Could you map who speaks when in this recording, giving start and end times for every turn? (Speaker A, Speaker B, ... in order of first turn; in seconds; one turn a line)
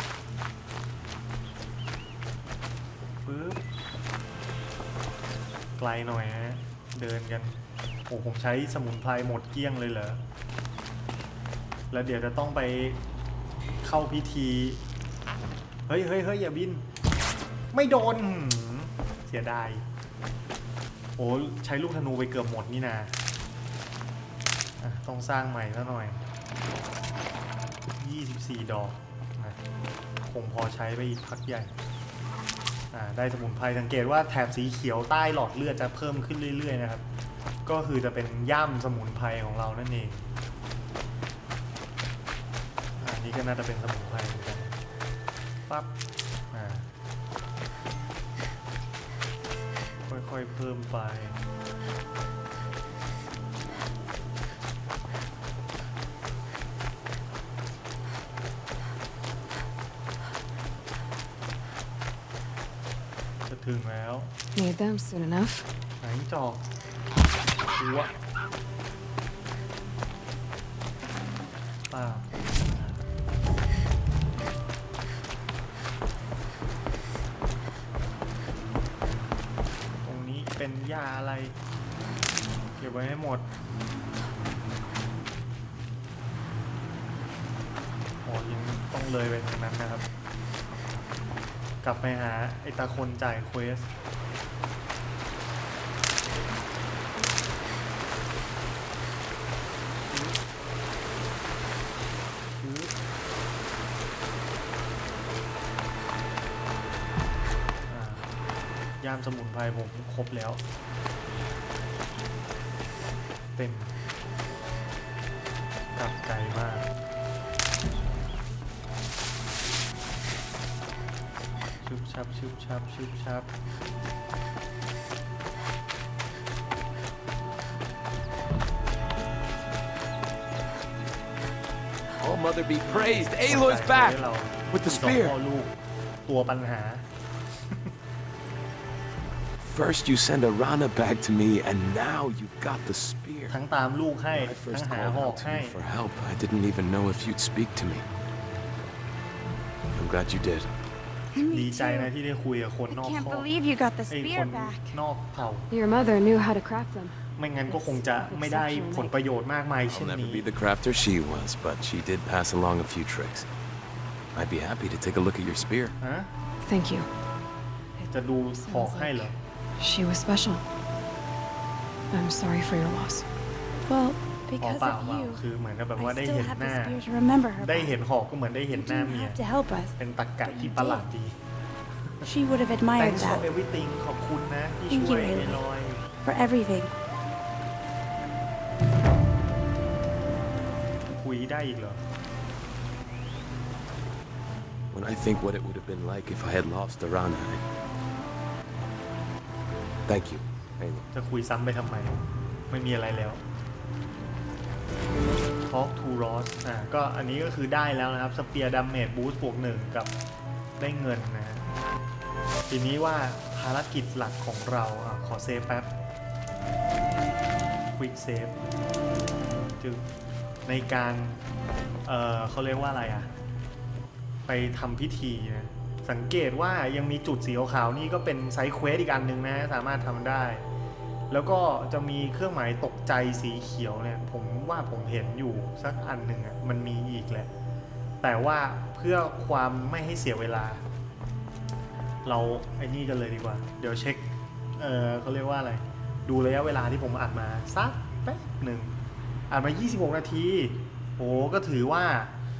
Speaker A: 3.2-3.6
Speaker A: 5.8-10.2
Speaker A: 11.9-13.0
Speaker A: 13.8-14.8
Speaker A: 15.9-16.8
Speaker A: 17.7-19.8
Speaker A: 21.2-23.1
Speaker A: 24.8-26.2
Speaker A: 28.0-29.6
Speaker A: 30.2-31.7
Speaker A: 32.9-37.0
Speaker A: 37.7-40.2
Speaker A: 43.0-44.8
Speaker A: 46.5-46.9
Speaker A: 50.1-51.4
Speaker A: 63.5-64.3
Speaker B: 64.5-65.7
Speaker A: 66.0-66.6
Speaker A: 67.8-68.1
Speaker A: 71.9-73.0
Speaker A: 80.0-81.5
Speaker A: 82.8-83.5
Speaker A: 88.3-90.0
Speaker A: 91.8-93.9
Speaker A: 100.1-100.4
Speaker A: 102.6-102.9
Speaker A: 107.9-108.3
Speaker A: 109.0-110.6
Speaker A: 113.6-113.9
Speaker A: 116.0-116.9
Speaker A: 121.8-123.5
Speaker C: 132.2-135.4
Speaker A: 132.9-135.7
Speaker A: 136.3-137.1
Speaker C: 139.6-143.6
Speaker A: 143.5-145.8
Speaker C: 144.3-148.1
Speaker C: 149.9-150.7
Speaker D: 151.3-152.1
Speaker A: 151.5-153.5
Speaker D: 152.9-155.0
Speaker A: 154.1-155.7
Speaker B: 155.7-157.2
Speaker A: 157.4-160.5
Speaker B: 157.7-159.1
Speaker C: 159.9-163.5
Speaker C: 164.3-165.9
Speaker A: 166.0-166.3
Speaker B: 166.6-167.1
Speaker A: 168.1-169.4
Speaker B: 168.6-170.6
Speaker B: 172.1-173.2
Speaker D: 173.9-175.4
Speaker A: 174.6-177.0
Speaker D: 176.0-178.0
Speaker A: 177.6-179.4
Speaker D: 178.7-181.1
Speaker A: 180.0-181.4
Speaker D: 182.2-183.4
Speaker A: 183.0-186.0
Speaker D: 184.9-185.6
Speaker D: 186.2-186.9
Speaker A: 191.1-192.0
Speaker C: 194.9-197.6
Speaker C: 200.1-201.1
Speaker A: 201.1-203.4
Speaker A: 205.7-210.1
Speaker A: 210.8-211.7
Speaker A: 212.7-215.9
Speaker A: 218.0-218.6
Speaker A: 219.8-220.1
Speaker A: 220.7-221.4
Speaker A: 222.1-223.3
Speaker A: 224.5-230.6
Speaker A: 231.3-237.5
Speaker A: 238.2-240.8
Speaker A: 242.2-248.9
Speaker A: 249.5-252.3